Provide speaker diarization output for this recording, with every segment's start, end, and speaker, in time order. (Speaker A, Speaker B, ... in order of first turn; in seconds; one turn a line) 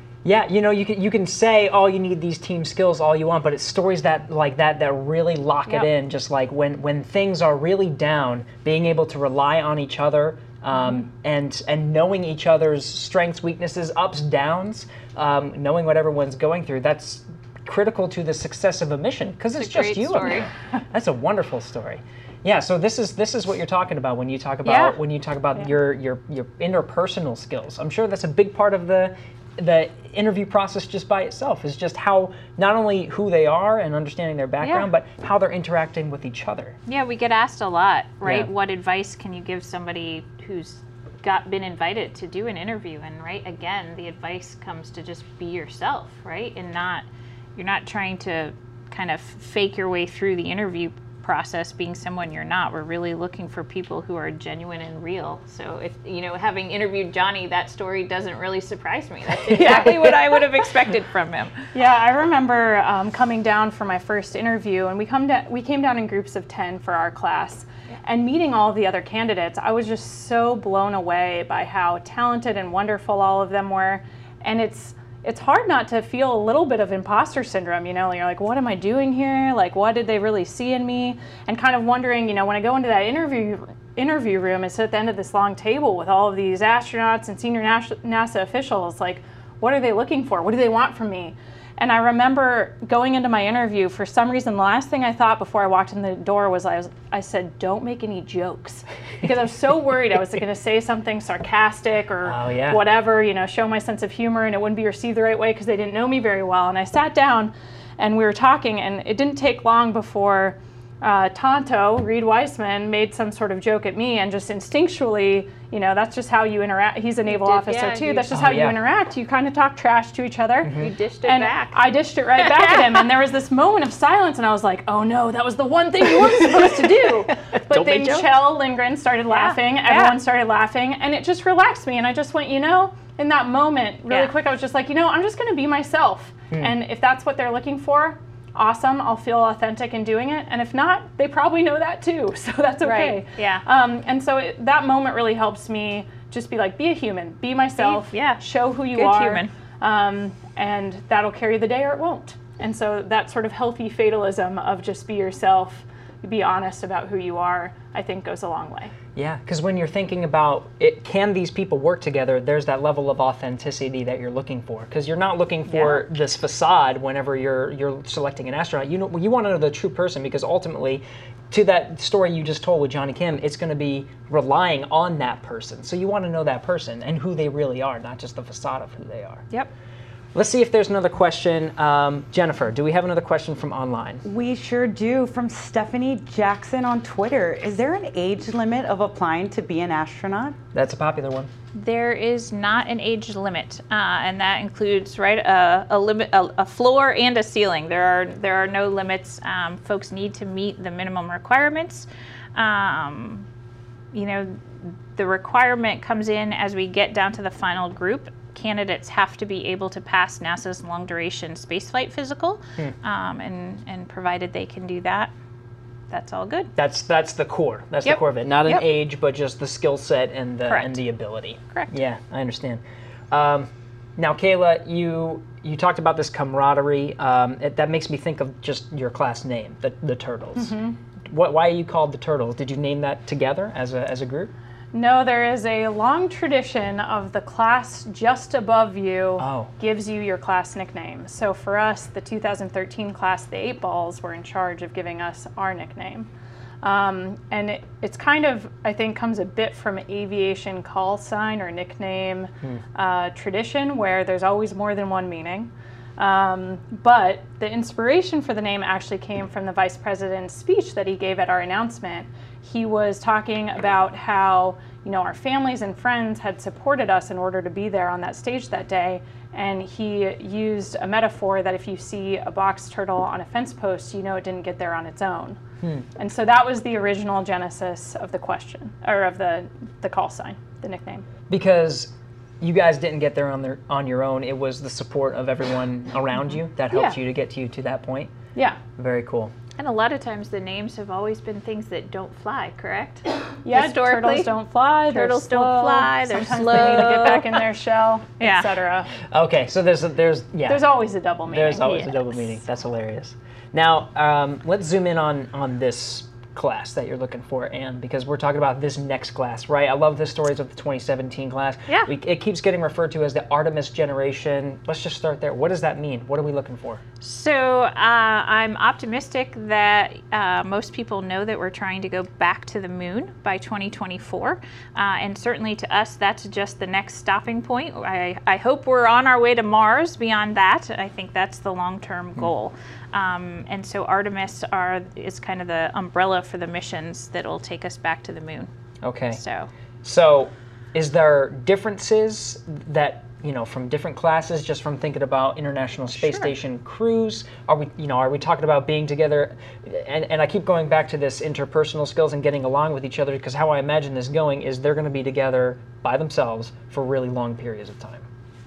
Speaker A: 0.2-36.8
Speaker B: 19.6-20.5
Speaker B: 36.9-47.0
Speaker A: 38.2-38.5
Speaker B: 47.6-61.5
Speaker A: 59.6-60.1
Speaker C: 59.6-60.0
Speaker C: 61.8-158.9
Speaker A: 102.2-102.8
Speaker B: 117.3-118.3
Speaker A: 118.3-118.8
Speaker A: 120.6-120.9
Speaker B: 120.7-121.8
Speaker B: 122.4-123.1
Speaker A: 127.5-128.3
Speaker B: 129.3-130.2
Speaker B: 142.8-143.6
Speaker B: 147.8-148.4
Speaker B: 148.9-149.5
Speaker A: 159.2-179.4
Speaker B: 165.7-166.0
Speaker A: 180.3-184.2
Speaker D: 184.2-190.6
Speaker A: 190.7-191.5
Speaker B: 191.7-203.5
Speaker B: 204.1-215.3
Speaker B: 216.1-216.7
Speaker A: 216.8-230.8
Speaker B: 218.1-218.8
Speaker B: 220.7-221.0
Speaker C: 230.6-231.0
Speaker A: 231.3-234.5
Speaker C: 234.9-246.3
Speaker A: 239.4-239.7
Speaker C: 246.8-275.6
Speaker C: 276.2-281.3
Speaker A: 281.5-288.3
Speaker C: 286.9-287.2
Speaker A: 289.0-289.5
Speaker B: 289.8-294.5
Speaker C: 293.6-299.1
Speaker B: 295.1-297.7
Speaker A: 296.7-297.2
Speaker B: 298.4-298.7
Speaker A: 299.2-300.8
Speaker C: 300.7-302.2
Speaker A: 301.5-317.0
Speaker B: 317.2-338.7
Speaker A: 339.0-339.4
Speaker B: 339.4-339.7
Speaker A: 340.0-358.2
Speaker B: 346.1-346.5